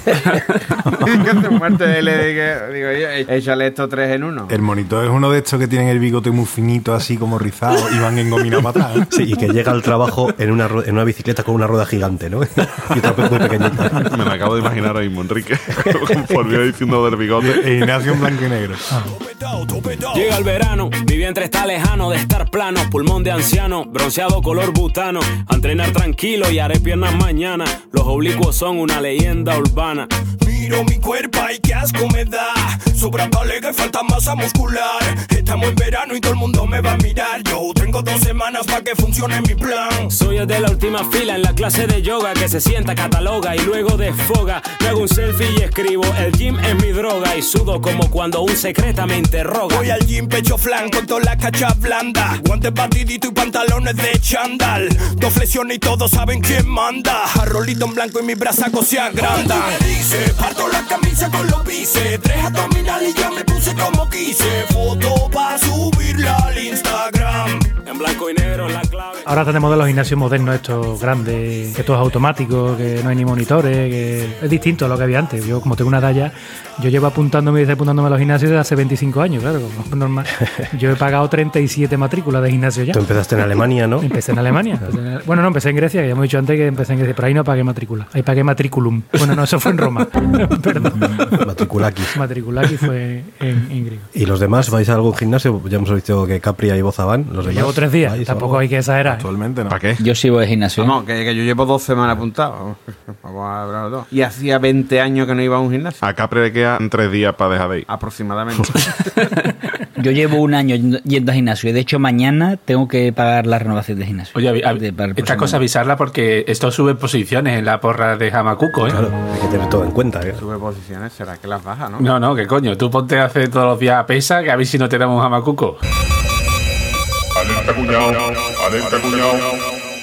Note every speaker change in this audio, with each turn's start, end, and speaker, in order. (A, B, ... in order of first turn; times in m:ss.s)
0:00.9-0:04.6 A
0:04.5-0:09.1 B
0:09.1-0:14.1 C
0:14.0-0:18.0 D
0:17.4-0:18.9 B
0:19.1-0:20.4 E
0:20.1-0:30.1 F
0:30.4-0:40.1 E
0:40.1-0:49.9 F
0:49.7-1:07.7 E
1:07.8-1:09.3 F
1:09.2-1:23.0 G
1:22.9-1:24.1 C
1:24.0-1:31.5 G
1:31.4-1:32.1 C
1:32.1-1:34.1 G
1:34.1-1:38.6 C
1:37.4-1:39.3 G
1:39.0-1:39.8 B
1:39.7-1:40.1 D
1:40.0-1:41.0 H
1:40.8-1:46.0 A
1:46.0-1:47.9 D
1:47.9-1:49.4 A
1:50.0-1:55.6 H
1:54.4-1:59.0 I
1:58.9-2:00.4 C
2:00.4-2:02.1 A
2:02.0-2:05.8 I
2:07.5-2:09.5 D